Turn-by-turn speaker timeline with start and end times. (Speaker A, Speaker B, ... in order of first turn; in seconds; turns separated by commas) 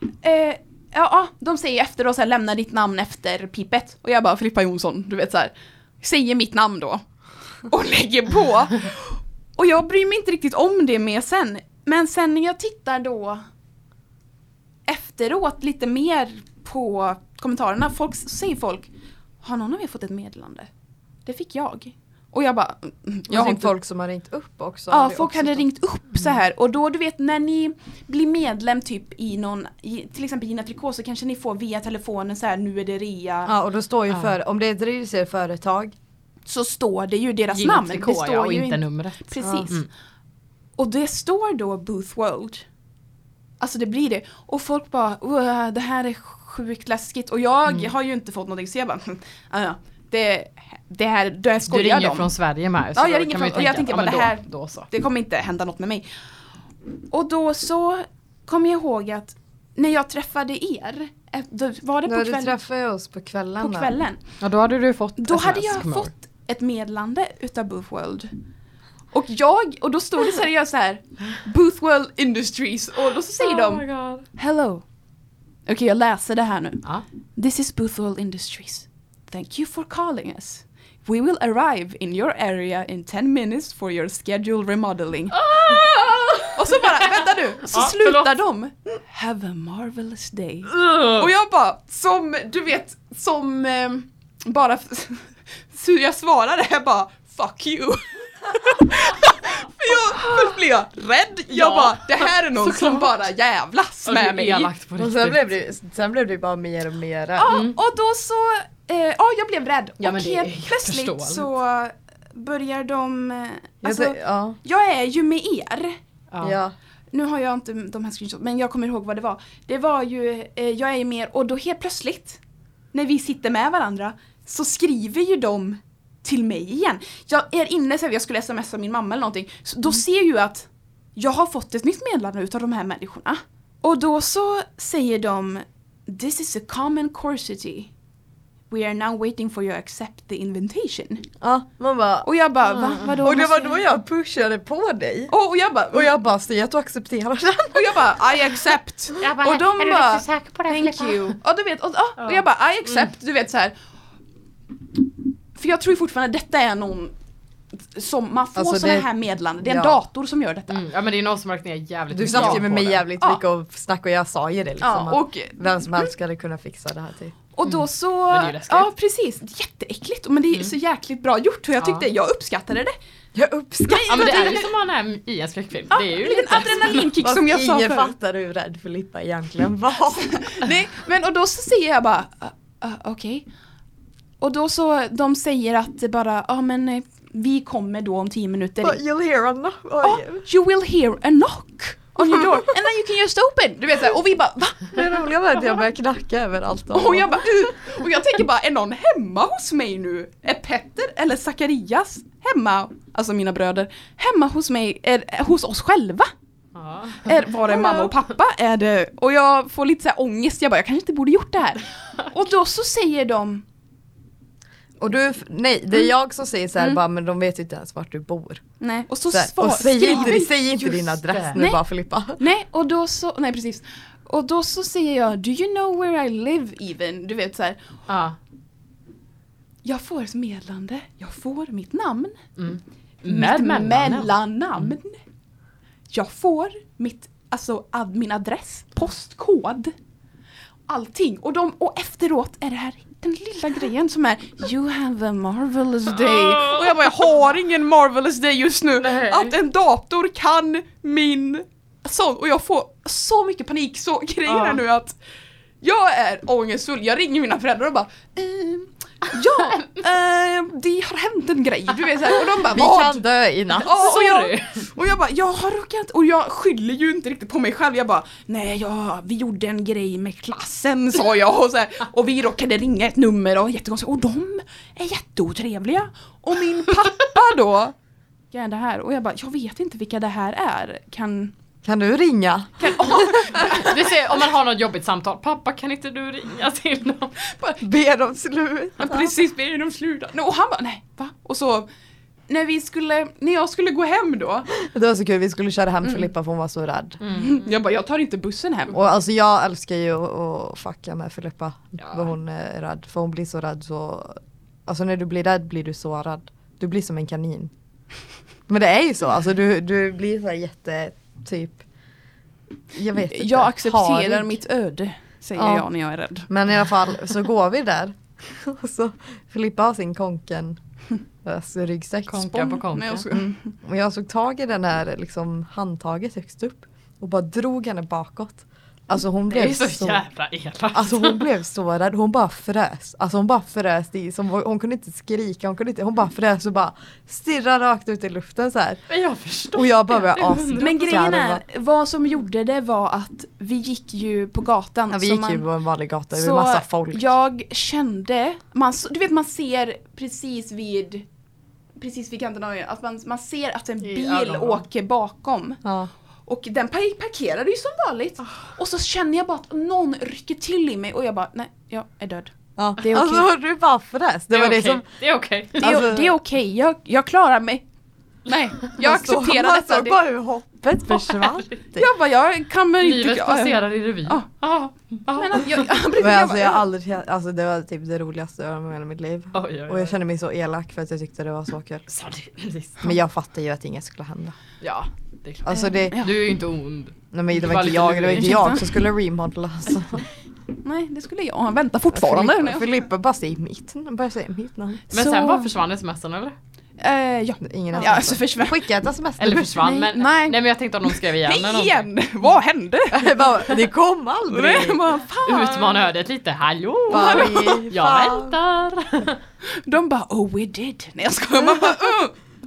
Speaker A: 0.2-7.0, Speaker A: 7.7-13.4, Speaker A: 14.9-18.9, Speaker A: 19.4-20.7, Speaker A: 21.2-23.7, Speaker B: 23.3-25.6, Speaker A: 24.9-33.5, Speaker B: 33.5-35.9, Speaker A: 36.5-39.8, Speaker C: 37.5-39.9, Speaker B: 39.4-39.7, Speaker A: 40.8-42.6, Speaker A: 43.6-52.3, Speaker C: 51.7-54.9, Speaker A: 52.9-56.1, Speaker A: 57.1-62.5, Speaker B: 62.1-63.9, Speaker A: 63.6-64.2, Speaker C: 64.4-66.1, Speaker A: 65.2-68.3, Speaker A: 69.1-74.8, Speaker C: 73.4-74.3, Speaker A: 75.7-76.8, Speaker A: 77.4-85.5, Speaker C: 85.3-88.4, Speaker A: 86.5-104.7, Speaker C: 90.7-91.3, Speaker C: 100.1-100.5, Speaker C: 101.5-103.1, Speaker C: 104.1-105.4, Speaker B: 105.0-107.6, Speaker A: 107.4-116.0, Speaker C: 107.5-107.8, Speaker C: 110.0-111.5, Speaker B: 113.8-114.6, Speaker C: 116.3-116.6, Speaker B: 116.4-116.7, Speaker A: 117.1-122.4, Speaker A: 122.9-137.9, Speaker A: 138.7-141.3, Speaker B: 141.4-142.3, Speaker A: 142.2-143.9, Speaker B: 143.2-145.3, Speaker A: 145.3-146.1, Speaker B: 145.9-148.2, Speaker A: 147.7-153.7, Speaker C: 149.2-151.2, Speaker A: 155.6-157.1, Speaker A: 157.8-160.8, Speaker B: 158.6-159.1, Speaker B: 159.6-160.0, Speaker C: 160.7-163.0, Speaker B: 162.1-167.3, Speaker A: 162.3-162.6, Speaker A: 164.8-166.1, Speaker A: 167.6-172.9, Speaker C: 167.6-168.9, Speaker C: 171.8-172.1, Speaker B: 173.3-174.6, Speaker A: 173.9-174.7, Speaker C: 174.1-177.1, Speaker A: 175.9-178.1, Speaker B: 177.2-180.6, Speaker A: 180.2-183.4, Speaker A: 184.4-189.0, Speaker B: 188.8-190.4, Speaker A: 190.0-195.0, Speaker B: 194.9-197.4, Speaker A: 196.9-206.3, Speaker C: 206.7-208.2, Speaker A: 207.2-213.6, Speaker B: 215.0-218.6, Speaker A: 218.8-221.8, Speaker B: 219.3-222.4, Speaker C: 221.3-221.6, Speaker A: 222.4-227.9, Speaker C: 228.1-228.4, Speaker A: 229.8-232.4, Speaker C: 232.6-234.9, Speaker A: 233.2-235.2, Speaker A: 236.1-239.9, Speaker A: 240.9-255.2, Speaker C: 246.2-247.1, Speaker C: 248.9-249.6, Speaker C: 254.5-254.8, Speaker A: 255.8-263.2, Speaker B: 262.7-264.1, Speaker A: 263.8-277.9, Speaker C: 263.8-264.8, Speaker A: 278.5-281.5, Speaker B: 281.8-283.7, Speaker A: 282.8-284.1, Speaker C: 283.6-287.4, Speaker A: 287.5-287.8, Speaker B: 287.8-289.3, Speaker A: 289.0-291.9, Speaker A: 292.5-294.7, Speaker B: 294.7-297.2, Speaker C: 297.2-297.6, Speaker A: 297.3-299.1, Speaker B: 298.9-307.7, Speaker C: 302.0-302.3, Speaker B: 308.7-311.8, Speaker B: 312.9-314.5, Speaker A: 313.3-316.5, Speaker B: 315.6-315.9, Speaker B: 316.5-320.8, Speaker B: 321.4-322.7, Speaker C: 322.3-323.3, Speaker A: 322.6-323.7, Speaker B: 323.3-330.2, Speaker C: 329.5-331.5, Speaker B: 330.9-339.0, Speaker C: 339.1-341.3, Speaker B: 339.7-341.6, Speaker A: 340.8-345.6, Speaker B: 345.1-347.3, Speaker A: 346.3-351.3, Speaker A: 352.0-355.8, Speaker C: 354.0-354.8, Speaker B: 355.8-356.1, Speaker A: 356.5-363.5, Speaker B: 362.8-365.1, Speaker C: 364.5-366.1, Speaker B: 365.8-366.4, Speaker A: 365.8-367.9, Speaker A: 368.4-370.2, Speaker B: 369.0-372.1, Speaker C: 371.1-371.8, Speaker A: 371.9-374.5, Speaker C: 373.0-376.1, Speaker A: 375.3-376.8, Speaker B: 376.2-382.1, Speaker C: 379.5-380.1, Speaker C: 382.1-383.1, Speaker B: 383.0-384.6, Speaker C: 384.8-388.8, Speaker B: 385.6-386.3, Speaker A: 385.7-386.3, Speaker B: 387.3-390.3, Speaker A: 388.4-388.8, Speaker A: 390.8-392.9, Speaker B: 392.1-395.1, Speaker A: 395.1-395.7, Speaker C: 395.1-396.6, Speaker A: 397.0-398.9, Speaker B: 397.6-399.8, Speaker C: 399.4-402.1, Speaker A: 399.8-403.8, Speaker B: 403.1-405.0, Speaker A: 404.5-406.1, Speaker C: 405.4-409.4, Speaker B: 407.1-408.6, Speaker A: 407.1-407.7, Speaker A: 409.8-412.4